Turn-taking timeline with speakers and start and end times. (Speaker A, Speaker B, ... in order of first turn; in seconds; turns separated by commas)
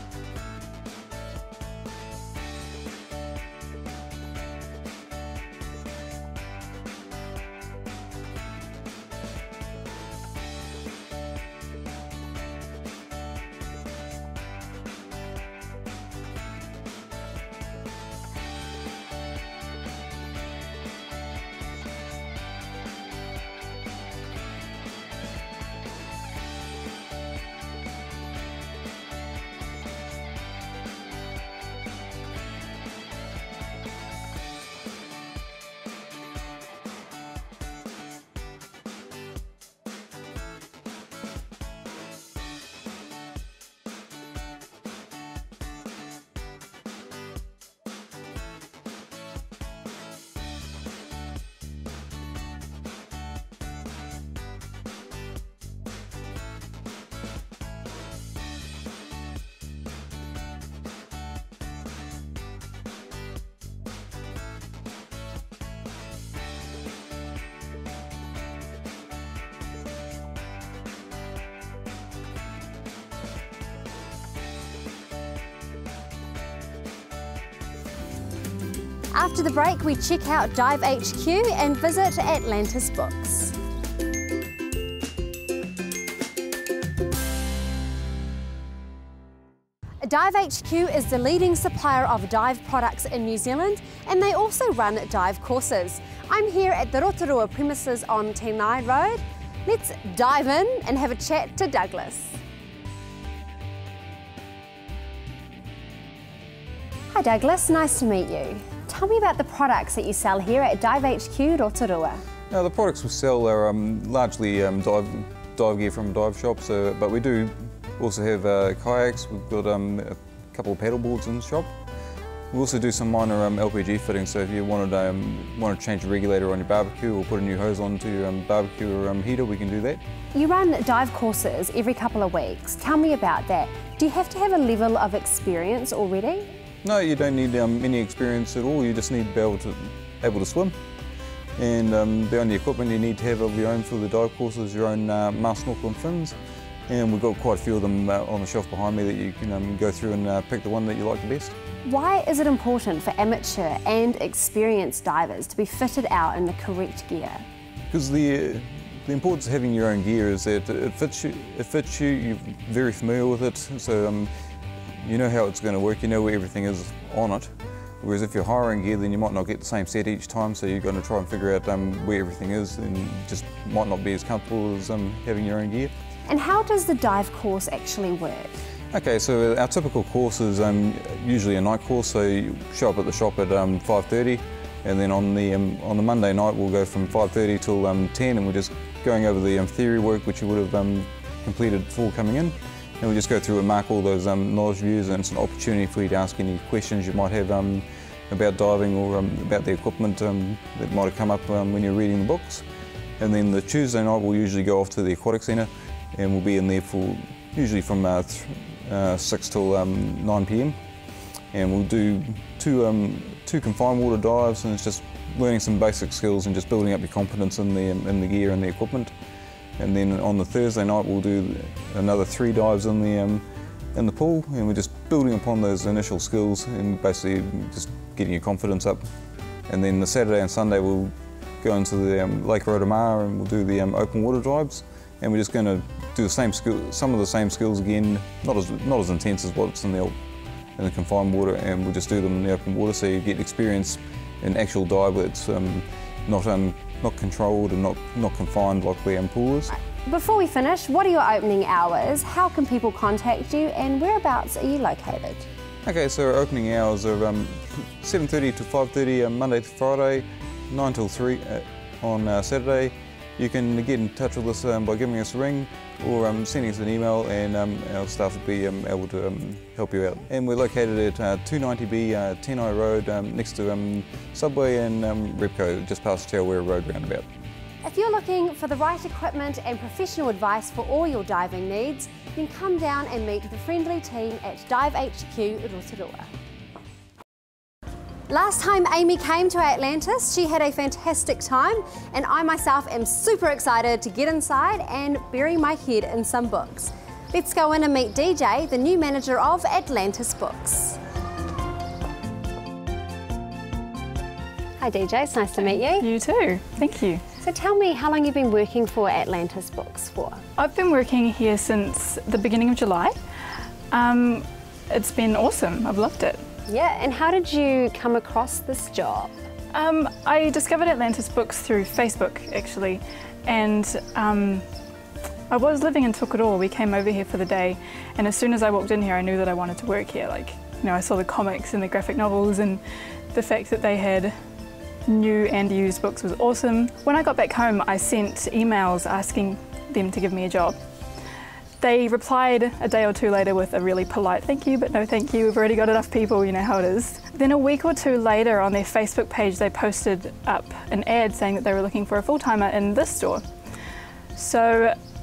Speaker A: 79.1-83.5, Speaker A: 90.0-102.4, Speaker A: 107.1-112.2, Speaker B: 112.5-121.7, Speaker B: 122.5-130.0, Speaker A: 130.3-136.5, Speaker B: 136.8-140.8, Speaker B: 141.6-146.3, Speaker B: 146.9-151.6, Speaker A: 151.8-157.4, Speaker B: 157.9-164.3, Speaker B: 165.0-175.9, Speaker A: 176.3-178.6, Speaker B: 178.9-202.6, Speaker B: 203.2-210.8, Speaker B: 211.5-219.1, Speaker B: 219.8-229.1, Speaker B: 229.7-240.1, Speaker B: 240.8-249.7, Speaker A: 249.7-255.5, Speaker B: 255.8-277.2, Speaker A: 277.8-286.3, Speaker A: 288.3-301.0, Speaker A: 304.8-306.1, Speaker C: 306.0-307.2, Speaker A: 307.4-310.4, Speaker C: 310.6-313.2, Speaker C: 313.9-316.4, Speaker A: 316.7-319.3, Speaker C: 319.7-324.6, Speaker C: 325.5-334.4, Speaker C: 335.1-340.8, Speaker C: 341.8-353.5, Speaker C: 354.3-355.0